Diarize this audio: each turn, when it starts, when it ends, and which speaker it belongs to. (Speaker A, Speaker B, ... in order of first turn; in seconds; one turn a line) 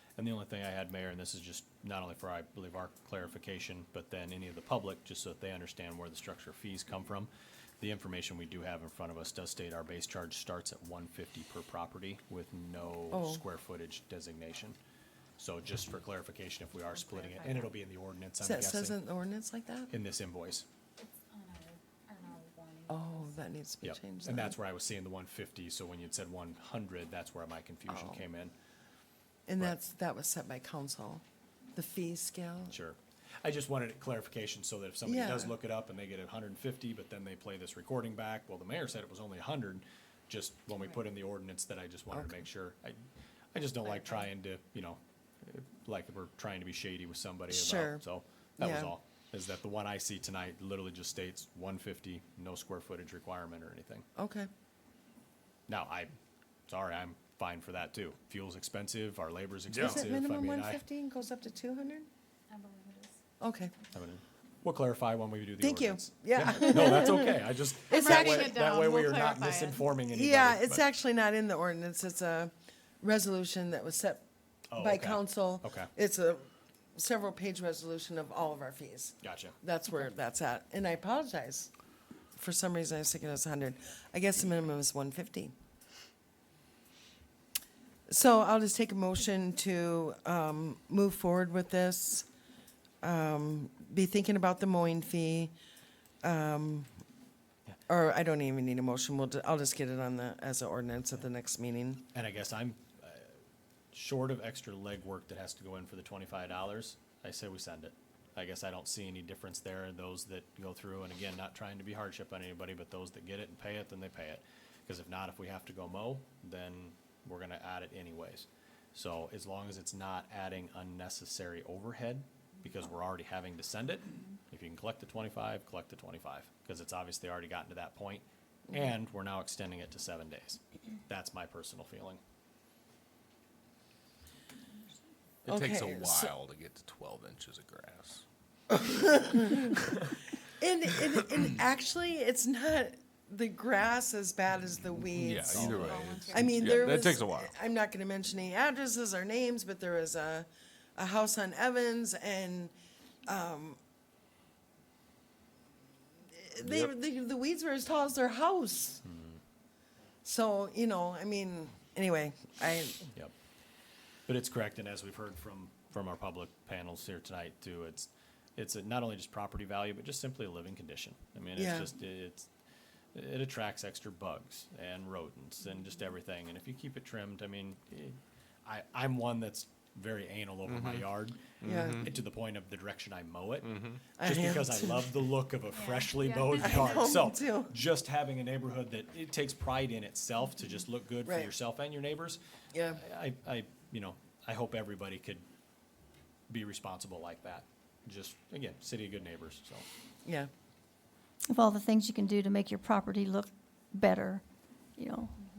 Speaker A: 0.2-14.8
Speaker B: 13.1-13.4
Speaker A: 15.4-18.9
Speaker C: 17.0-17.7
Speaker B: 18.4-19.9
Speaker A: 19.9-20.6
Speaker C: 21.3-23.3
Speaker B: 22.9-24.6
Speaker A: 23.8-28.5
Speaker B: 27.9-28.2
Speaker B: 29.5-31.2
Speaker B: 31.7-32.8
Speaker A: 32.7-43.0
Speaker B: 35.0-35.5
Speaker B: 42.1-42.4
Speaker A: 43.5-54.0
Speaker B: 47.5-48.0
Speaker B: 48.6-48.9
Speaker B: 54.2-54.5
Speaker A: 55.7-56.1
Speaker A: 56.7-60.8
Speaker D: 59.7-60.0
Speaker B: 59.7-62.1
Speaker C: 62.5-63.1
Speaker B: 63.4-63.7
Speaker A: 63.9-70.8
Speaker B: 65.6-69.4
Speaker C: 67.9-69.8
Speaker B: 70.1-74.2
Speaker A: 74.7-75.9
Speaker B: 74.8-81.7
Speaker A: 79.2-79.6
Speaker B: 82.3-85.5
Speaker B: 88.1-92.3
Speaker B: 93.0-95.5
Speaker B: 96.2-96.9
Speaker B: 97.9-102.0
Speaker A: 102.1-103.3
Speaker A: 103.9-132.2
Speaker B: 135.4-136.3
Speaker D: 135.4-138.2
Speaker B: 138.8-139.7
Speaker B: 140.4-152.7
Speaker D: 145.1-147.5
Speaker C: 145.8-146.5
Speaker B: 153.3-153.8
Speaker B: 156.3-159.0
Speaker D: 156.6-156.9
Speaker A: 159.0-159.4
Speaker B: 160.2-163.0
Speaker A: 164.3-172.5
Speaker B: 171.5-171.9
Speaker A: 173.1-195.4
Speaker D: 180.7-182.1
Speaker B: 181.6-182.1
Speaker D: 183.6-184.0
Speaker B: 184.2-185.1
Speaker C: 185.7-187.0
Speaker B: 186.6-187.7
Speaker B: 191.2-191.5
Speaker B: 192.7-193.0
Speaker A: 196.5-199.8
Speaker E: 201.5-204.4
Speaker E: 205.0-205.3